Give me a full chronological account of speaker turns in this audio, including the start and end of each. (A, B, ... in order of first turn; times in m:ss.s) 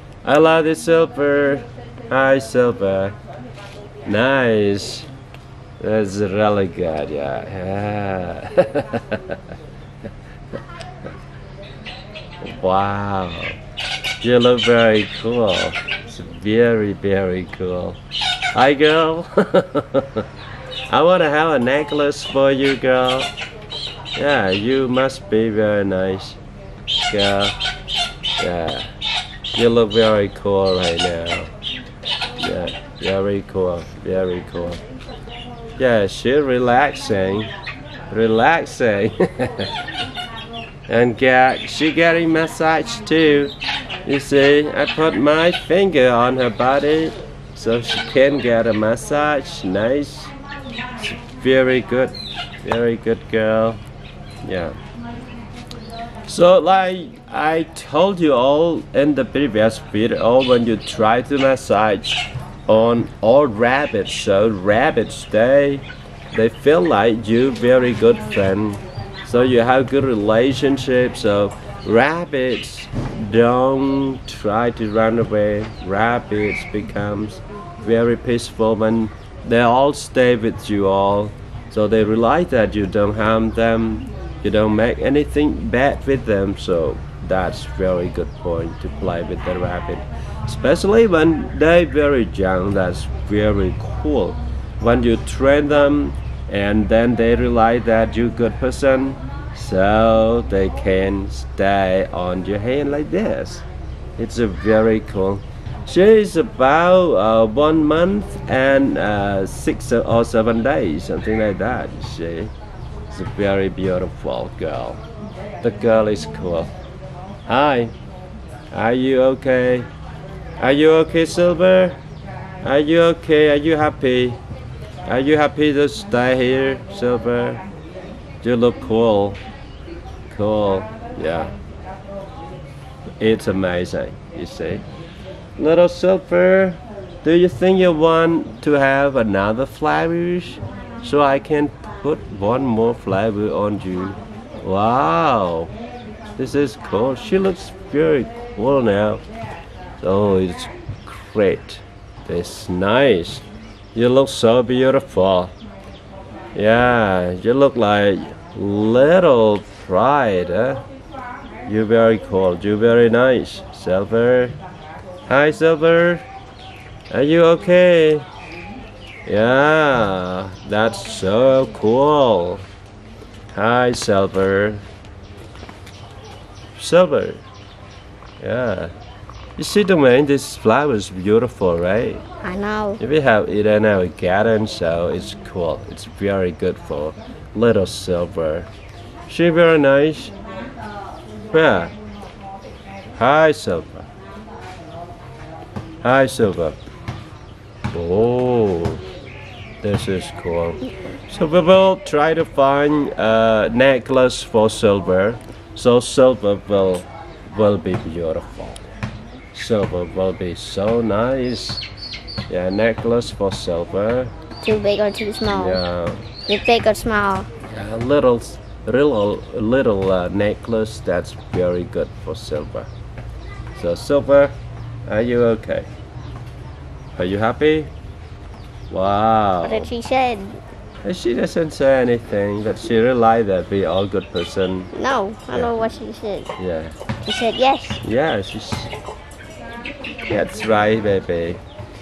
0:00.2-0:03.2 A
0:04.0-0:05.1 A
0:05.8-0:09.4 A
0:12.4-0:13.6 A
0:14.2-0:18.0 A
0:18.5-0:20.2 A
0:20.9-0:23.3 A
0:24.2-0:26.4 A
0:27.1-0:27.6 A
0:28.4-0:28.9 A
0:29.5-0:31.5 A
0:32.4-0:34.8 A
0:35.8-0:37.5 A
0:38.1-0:39.7 A
0:40.9-0:43.5 A
0:44.0-0:50.3 A
0:51.0-0:53.8 A
0:54.4-0:54.8 A
0:56.2-1:43.6 A
1:44.2-1:52.5 A
1:53.1-1:55.0 A
1:55.6-1:56.7 A
1:57.5-1:57.9 A
1:58.7-1:59.9 A
2:00.6-2:02.0 A
2:02.6-2:04.4 A
2:05.0-2:07.6 A
2:08.4-2:09.4 A
2:10.3-2:11.5 A
2:13.2-2:14.8 A
2:15.6-2:25.7 A
2:26.4-2:29.2 A
2:30.0-2:35.5 A
2:36.5-2:40.8 A
2:41.7-2:44.6 A
2:45.3-2:46.2 A
2:47.1-2:48.3 A
2:49.2-2:52.6 A
2:53.5-2:54.8 A
2:56.8-2:57.4 A
2:58.4-2:58.9 A
2:59.6-3:02.2 A
3:02.4-3:03.0 B
3:03.0-3:08.7 A
3:09.3-3:10.3 A
3:11.5-3:11.9 A
3:13.1-3:14.1 A
3:16.0-3:16.8 A
3:17.9-3:19.0 A
3:19.8-3:28.8 A
3:29.5-3:31.8 A
3:32.5-3:34.3 A
3:34.6-3:35.8 B
3:35.5-3:36.2 A
3:36.5-3:37.5 B
3:37.6-3:42.9 A
3:43.7-3:44.5 A
3:45.1-3:45.9 A
3:47.1-3:47.9 A
3:48.9-3:49.9 A
3:49.6-3:50.6 B
3:51.0-3:54.9 A
3:54.9-3:56.5 B
3:56.6-3:57.0 A
3:57.2-3:58.0 B
3:58.0-3:58.9 A
4:00.3-4:01.6 A